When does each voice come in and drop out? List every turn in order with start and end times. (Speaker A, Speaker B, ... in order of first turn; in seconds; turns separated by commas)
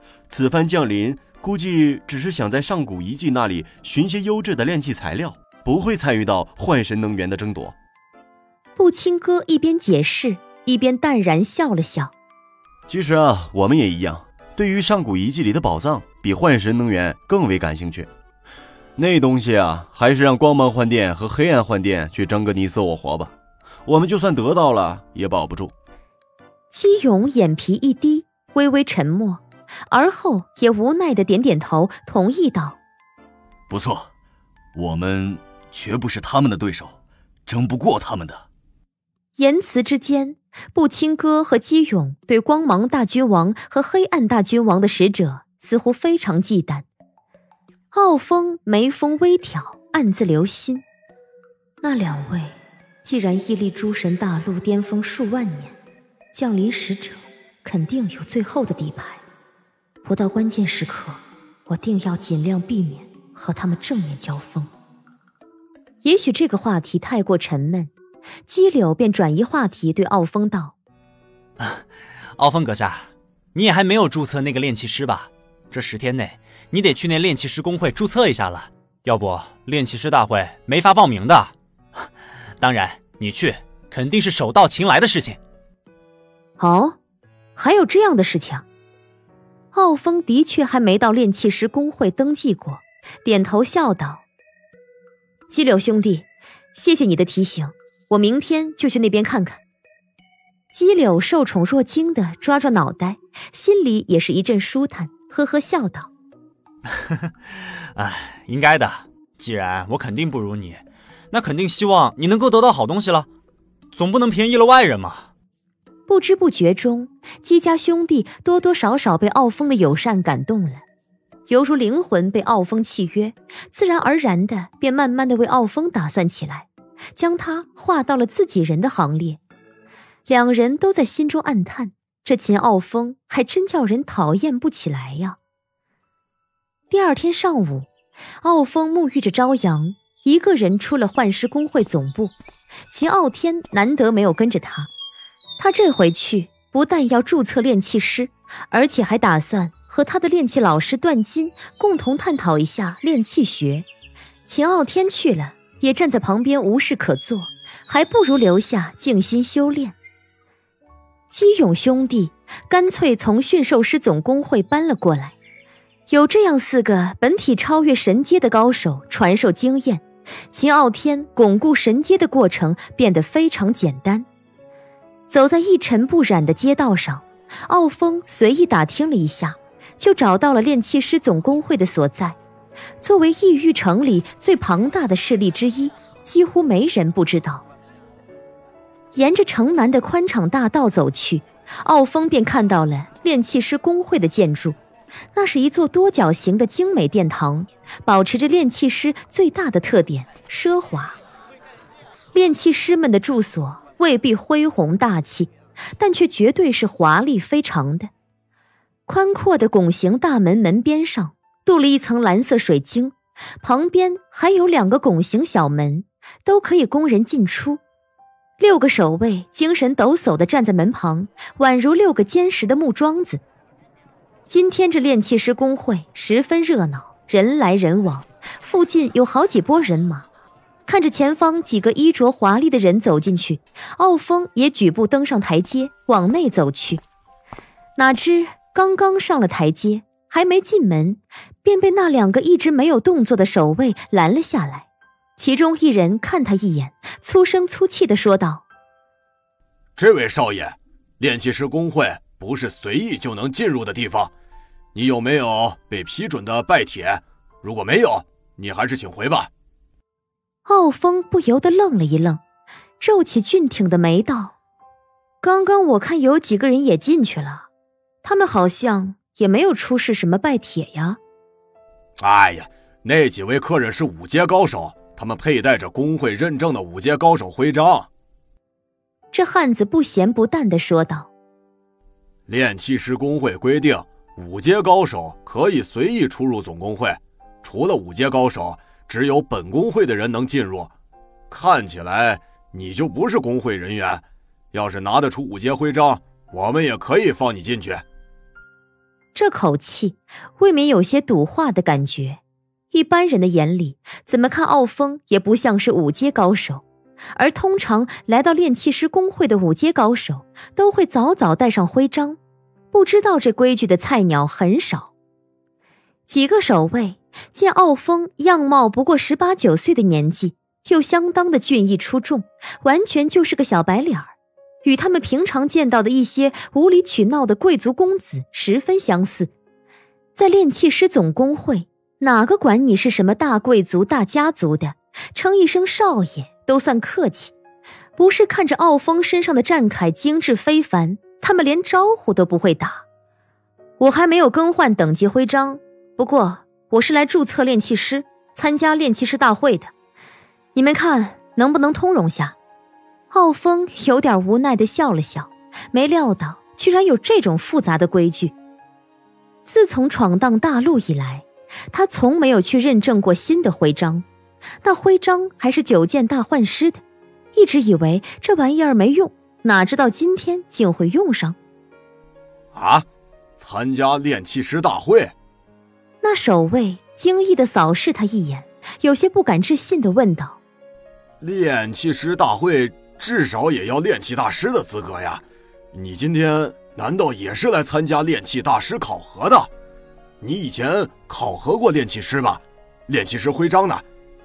Speaker A: 0.3-7.7, Speaker B: 8.8-12.1, Speaker A: 12.9-18.1, Speaker A: 19.0-23.3, Speaker A: 23.8-25.7, Speaker B: 26.7-32.8, Speaker C: 33.7-34.1, Speaker C: 34.7-38.4, Speaker B: 39.4-46.9, Speaker B: 47.9-50.8, Speaker B: 51.8-52.5, Speaker B: 53.0-55.8, Speaker B: 56.3-59.2, Speaker B: 60.0-64.7, Speaker B: 66.0-67.9, Speaker B: 68.5-70.7, Speaker D: 71.6-71.8, Speaker D: 72.4-82.1, Speaker D: 82.6-85.4, Speaker B: 86.6-87.0, Speaker B: 87.5-88.6, Speaker B: 89.7-94.2, Speaker B: 95.5-99.6, Speaker B: 100.7-106.1, Speaker D: 107.9-113.3, Speaker D: 113.9-115.3, Speaker B: 116.1-120.8, Speaker B: 121.5-129.4, Speaker B: 130.3-135.4, Speaker B: 136.9-137.9, Speaker B: 138.4-142.3, Speaker B: 142.9-144.9, Speaker B: 145.6-153.8, Speaker B: 154.5-159.9, Speaker B: 161.3-165.3, Speaker B: 166.1-174.2, Speaker B: 175.3-182.4, Speaker B: 183.0-187.6, Speaker B: 189.1-194.8, Speaker B: 195.3-201.2, Speaker B: 202.3-208.1, Speaker B: 209.1-217.8, Speaker B: 218.6-223.4, Speaker B: 224.5-230.2, Speaker B: 230.9-237.0, Speaker B: 238.0-248.6, Speaker E: 249.9-254.3, Speaker E: 254.9-259.5, Speaker B: 260.6-262.4, Speaker B: 263.0-264.5, Speaker B: 265.4-267.7, Speaker B: 268.2-271.2, Speaker E: 272.2-278.1, Speaker B: 279.3-281.3, Speaker E: 282.5-290.9, Speaker E: 291.5-298.0, Speaker B: 299.3-302.4, Speaker B: 302.9-306.8, Speaker B: 307.3-312.4, Speaker B: 312.9-315.1, Speaker B: 316.3-329.5, Speaker B: 330.3-337.5, Speaker B: 338.2-343.0, Speaker B: 344.0-349.9, Speaker B: 350.7-352.6, Speaker B: 353.3-358.5, Speaker B: 359.7-364.2, Speaker B: 364.8-367.0, Speaker B: 367.5-371.6, Speaker E: 372.7-373.0, Speaker E: 373.6-375.3, Speaker B: 376.2-380.6, Speaker E: 381.4-389.7, Speaker E: 390.4-394.0